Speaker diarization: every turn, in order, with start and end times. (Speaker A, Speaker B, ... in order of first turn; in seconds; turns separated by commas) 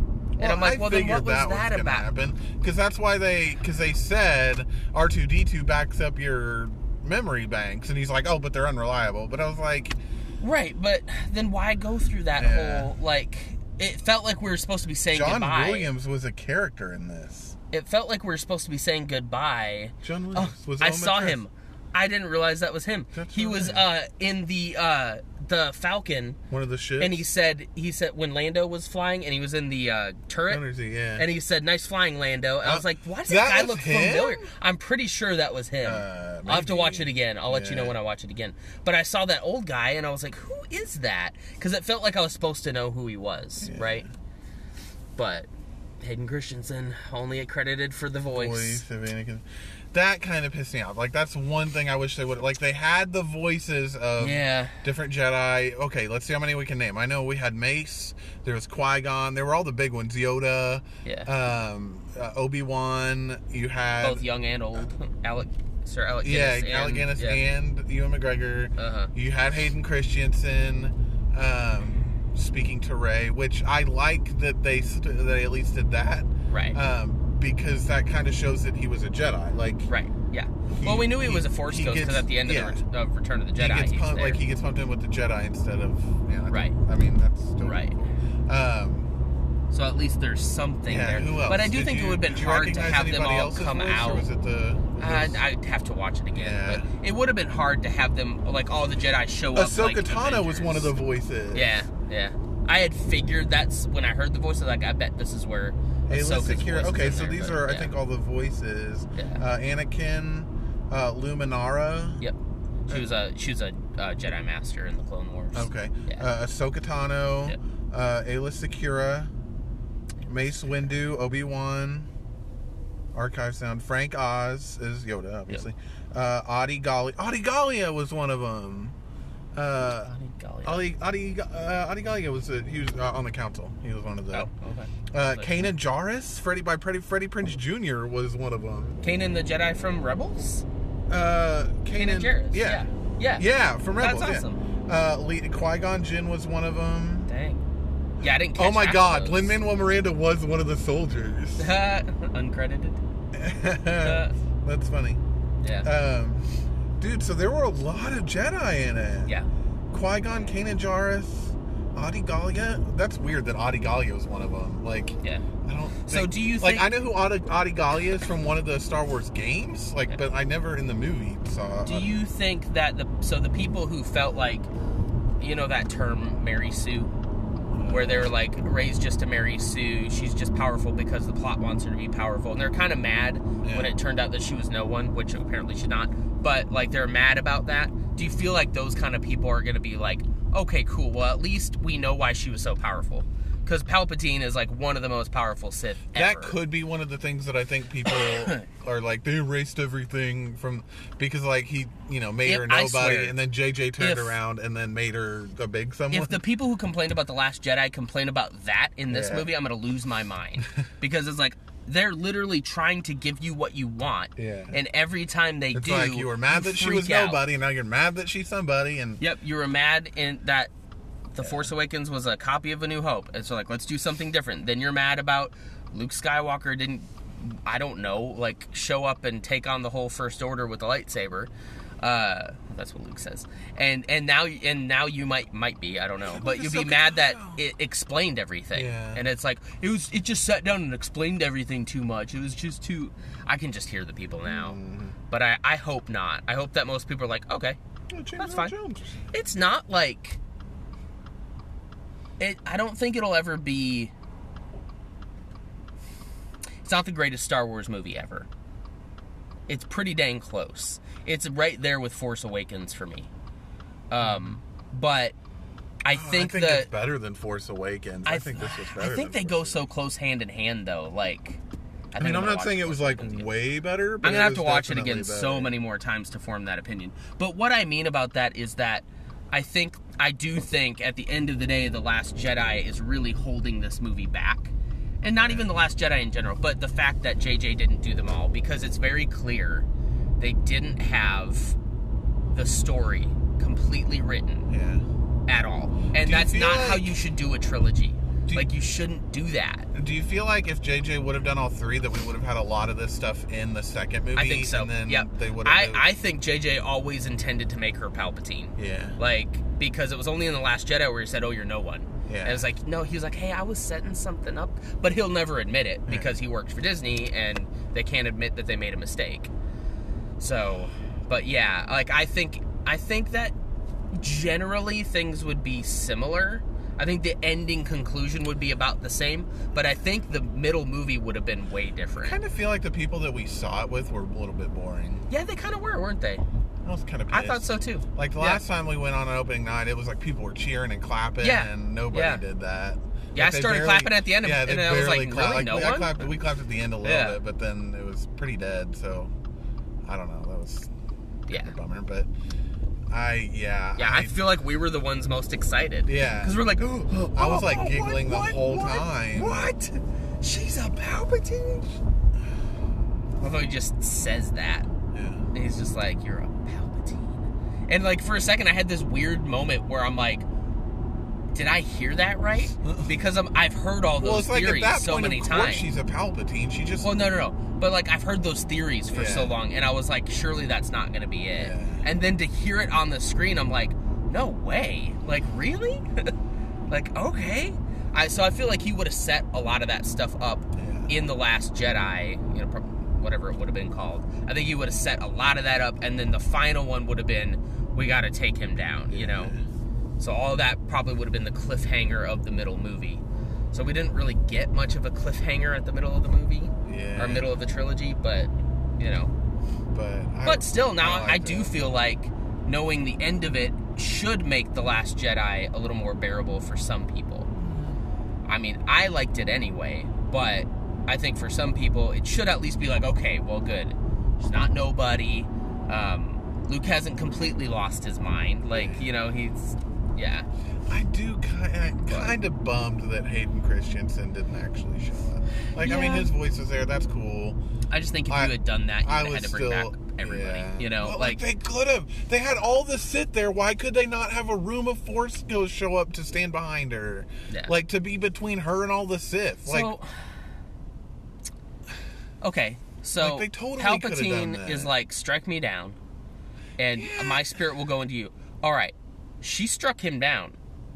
Speaker A: 0.4-10.0, Speaker B: 0.4-2.1, Speaker B: 10.4-15.9, Speaker A: 12.3-12.9, Speaker A: 15.1-17.6, Speaker B: 17.7-26.4, Speaker A: 20.0-21.4, Speaker A: 23.1-23.9, Speaker A: 26.5-27.2, Speaker B: 27.0-30.6, Speaker A: 30.5-31.3, Speaker B: 31.2-44.0, Speaker A: 32.6-34.5, Speaker A: 35.8-38.0, Speaker A: 43.6-44.1, Speaker B: 45.2-45.5, Speaker B: 46.0-48.9, Speaker A: 48.3-64.3, Speaker B: 54.2-54.8, Speaker B: 61.0-61.3, Speaker B: 64.0-67.4, Speaker A: 66.2-79.9, Speaker B: 68.8-69.1, Speaker B: 76.5-76.8, Speaker B: 79.9-84.4, Speaker A: 80.7-82.8, Speaker A: 83.6-89.1, Speaker B: 86.5-86.7, Speaker B: 87.6-88.0, Speaker B: 89.7-94.3, Speaker A: 90.9-95.4, Speaker B: 95.0-100.9, Speaker A: 96.3-96.9, Speaker A: 99.5-101.8, Speaker B: 101.5-107.9, Speaker A: 106.1-112.2, Speaker B: 109.2-109.4, Speaker B: 112.9-116.3, Speaker A: 115.5-119.3, Speaker A: 120.3-122.1, Speaker A: 123.1-128.9, Speaker A: 129.6-130.1, Speaker B: 130.0-130.9, Speaker A: 130.6-134.5, Speaker B: 134.3-135.7, Speaker A: 135.1-139.0, Speaker B: 139.0-140.7, Speaker A: 141.1-147.3, Speaker B: 141.9-144.6, Speaker B: 147.3-147.6, Speaker B: 148.2-149.5, Speaker A: 148.2-151.7, Speaker B: 151.6-153.0, Speaker A: 153.3-155.2, Speaker B: 154.0-154.3, Speaker B: 155.6-155.9, Speaker A: 155.8-156.4, Speaker A: 157.0-159.3, Speaker A: 159.9-172.2, Speaker B: 166.1-166.9, Speaker B: 171.8-174.7, Speaker B: 175.4-177.1, Speaker A: 177.7-178.3, Speaker B: 177.9-196.6, Speaker A: 183.6-183.9, Speaker A: 196.1-206.4, Speaker B: 198.1-198.7, Speaker B: 202.4-203.4, Speaker B: 204.0-204.4, Speaker B: 206.1-217.4, Speaker A: 209.1-209.5, Speaker A: 214.4-214.8, Speaker A: 215.7-219.2, Speaker B: 219.2-220.7, Speaker B: 221.3-244.8, Speaker A: 221.4-221.7, Speaker A: 236.2-237.6, Speaker A: 238.7-239.2, Speaker A: 244.4-245.2, Speaker B: 245.3-247.8, Speaker A: 248.1-249.3, Speaker B: 248.4-248.7, Speaker B: 249.3-250.4, Speaker B: 252.4-254.1, Speaker B: 256.9-258.5, Speaker B: 259.7-263.3, Speaker B: 264.1-265.4, Speaker A: 264.2-264.6, Speaker B: 266.0-266.9, Speaker A: 266.1-269.9, Speaker B: 268.3-271.6, Speaker B: 272.1-273.5, Speaker A: 272.2-275.7, Speaker B: 274.2-289.9, Speaker A: 285.4-285.7, Speaker B: 290.4-291.8, Speaker B: 292.5-294.7, Speaker A: 294.7-295.1, Speaker B: 295.5-299.9, Speaker A: 296.2-297.2, Speaker A: 299.9-306.1, Speaker B: 304.4-319.5, Speaker A: 308.8-309.2, Speaker A: 312.3-312.6, Speaker B: 320.4-323.5, Speaker B: 324.1-332.4, Speaker A: 332.2-335.3, Speaker B: 335.3-336.4, Speaker A: 336.9-349.3, Speaker B: 337.3-338.6, Speaker B: 341.4-342.4, Speaker B: 343.4-346.3, Speaker B: 347.0-347.4, Speaker A: 350.1-350.9, Speaker B: 351.5-351.8, Speaker A: 351.5-352.3, Speaker A: 353.1-354.4, Speaker B: 354.0-362.0, Speaker A: 356.1-359.7, Speaker B: 363.4-364.9, Speaker A: 365.1-365.5, Speaker B: 365.5-367.4, Speaker B: 367.9-370.4, Speaker B: 371.5-375.9, Speaker A: 374.2-377.1, Speaker B: 377.0-386.3, Speaker A: 379.1-379.6, Speaker A: 381.6-382.1, Speaker B: 386.9-399.5, Speaker A: 390.8-391.1, Speaker A: 399.1-399.6, Speaker B: 400.2-409.3, Speaker A: 406.9-407.5, Speaker A: 409.9-411.8, Speaker B: 410.4-417.5, Speaker A: 417.6-418.0, Speaker B: 418.5-430.5, Speaker A: 428.7-429.1, Speaker A: 430.9-437.6, Speaker B: 432.1-432.4, Speaker B: 435.8-436.3, Speaker B: 437.9-441.4, Speaker A: 438.3-449.9, Speaker B: 447.5-447.8, Speaker B: 449.6-450.2, Speaker B: 452.4-456.0, Speaker A: 453.2-454.9, Speaker B: 456.8-460.6, Speaker A: 457.0-457.6